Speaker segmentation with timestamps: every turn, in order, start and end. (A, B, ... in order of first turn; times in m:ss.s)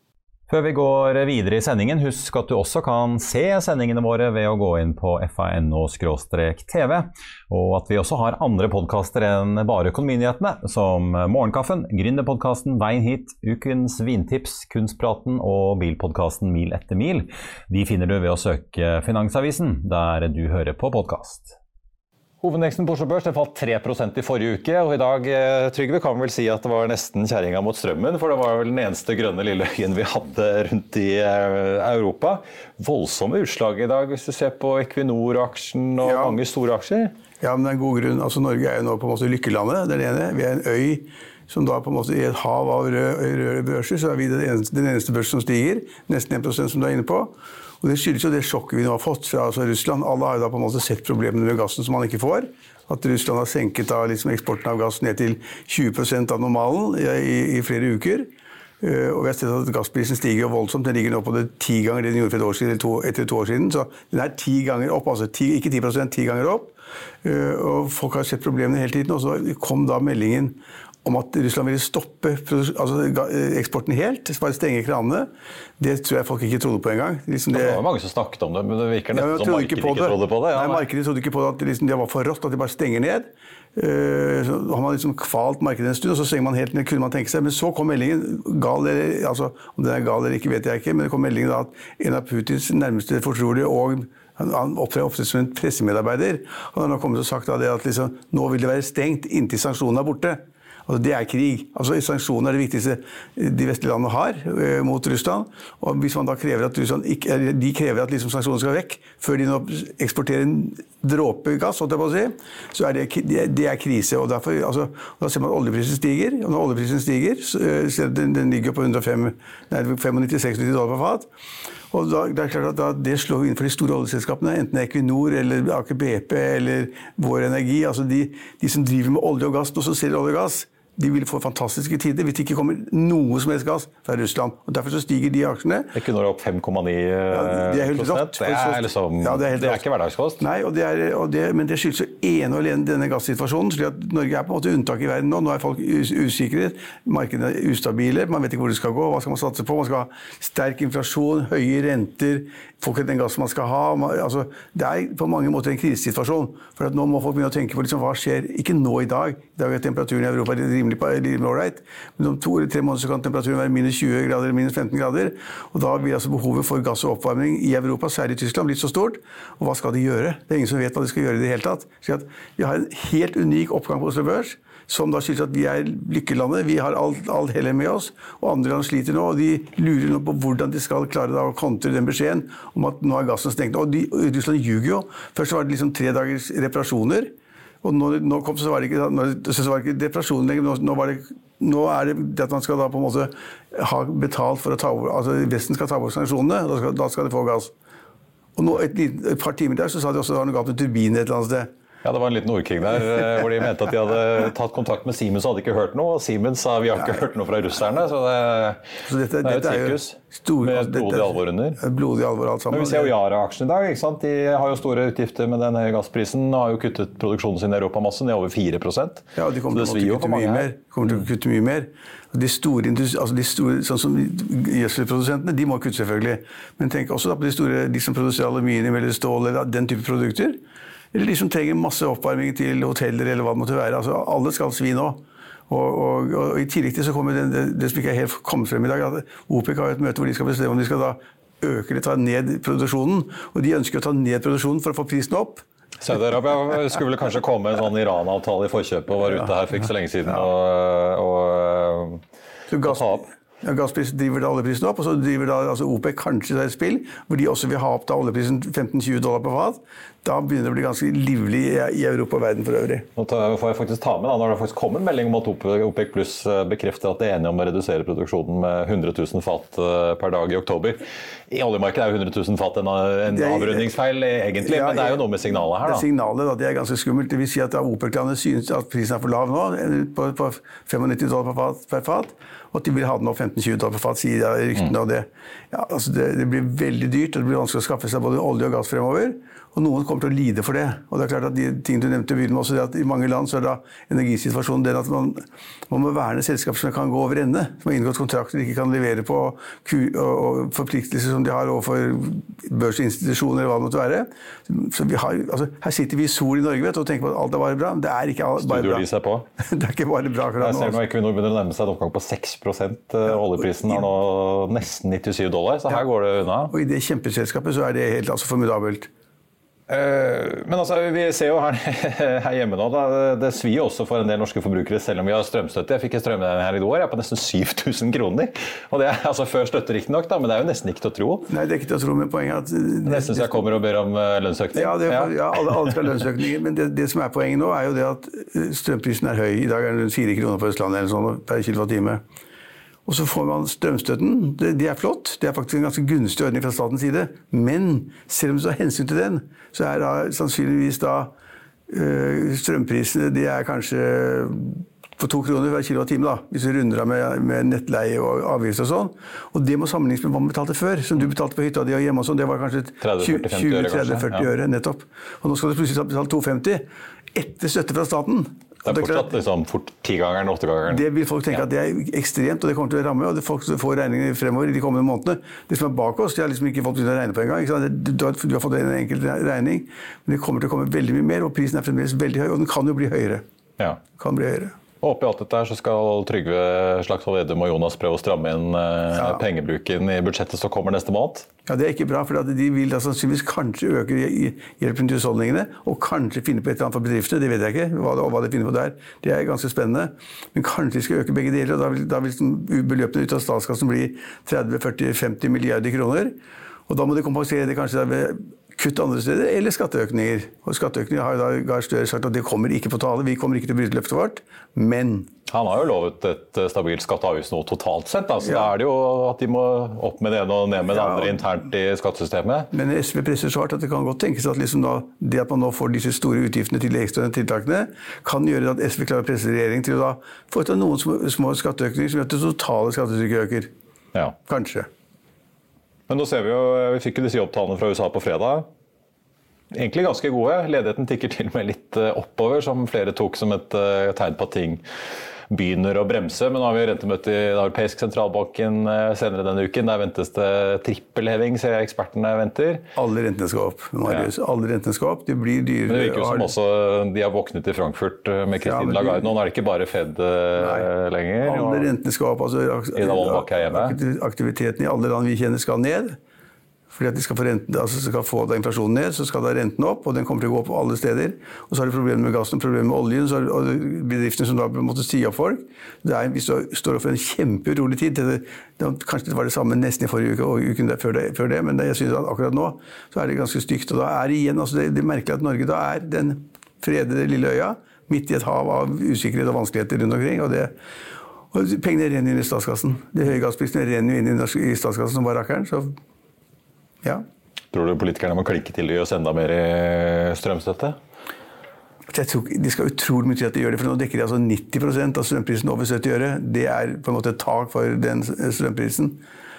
0:00.5-0:21.6 A
0:22.4-0:37.1 A
0:36.0-0:36.4 B
0:37.4-0:58.3 B
0:58.8-1:17.8 B
1:17.5-1:20.8 A
1:19.1-2:01.3 B
2:01.9-2:15.9 B
2:15.9-2:20.4 A
2:17.3-2:19.8 B
2:20.4-3:17.7 B
3:18.6-3:21.7 B
3:22.0-3:28.8 A
3:29.0-3:33.1 B
3:29.4-3:31.8 A
3:32.7-3:40.7 A
3:39.4-3:50.6 B
3:51.1-4:05.6 B
4:06.0-4:12.2 A
4:12.7-4:23.1 B
4:12.8-4:13.2 A
4:23.2-4:36.0 A
4:33.3-4:33.9 B
4:34.6-5:09.0 B
5:08.6-5:09.4 A
5:09.6-5:11.0 B
5:10.6-5:16.7 A
5:13.3-5:14.0 B
5:16.7-5:19.1 B
5:19.9-5:31.5 A
5:31.5-5:33.7 B
5:33.0-5:36.0 A
5:34.7-5:42.2 B
5:43.0-5:51.3 B
5:51.9-6:09.3 B
6:03.0-6:04.5 A
6:08.8-6:11.6 A
6:10.9-6:23.4 B
6:24.2-6:24.8 B
6:25.0-6:31.5 A
6:29.1-6:29.4 B
6:31.6-6:46.4 B
6:46.9-6:55.3 B
6:55.5-7:02.7 A
6:58.4-6:58.7 B
7:00.8-7:01.4 B
7:02.7-7:13.7 B
7:14.4-7:14.9 B
7:16.1-7:18.7 A
7:19.7-7:24.8 A
7:25.5-7:32.8 A
7:33.0-7:36.5 B
7:35.9-7:41.9 A
7:38.6-7:39.3 B
7:40.6-7:40.9 B
7:41.4-7:46.2 B
7:42.9-7:44.0 A
7:46.9-8:10.7 B
8:11.5-8:16.0 B
8:17.7-8:21.0 A
8:22.1-8:29.2 B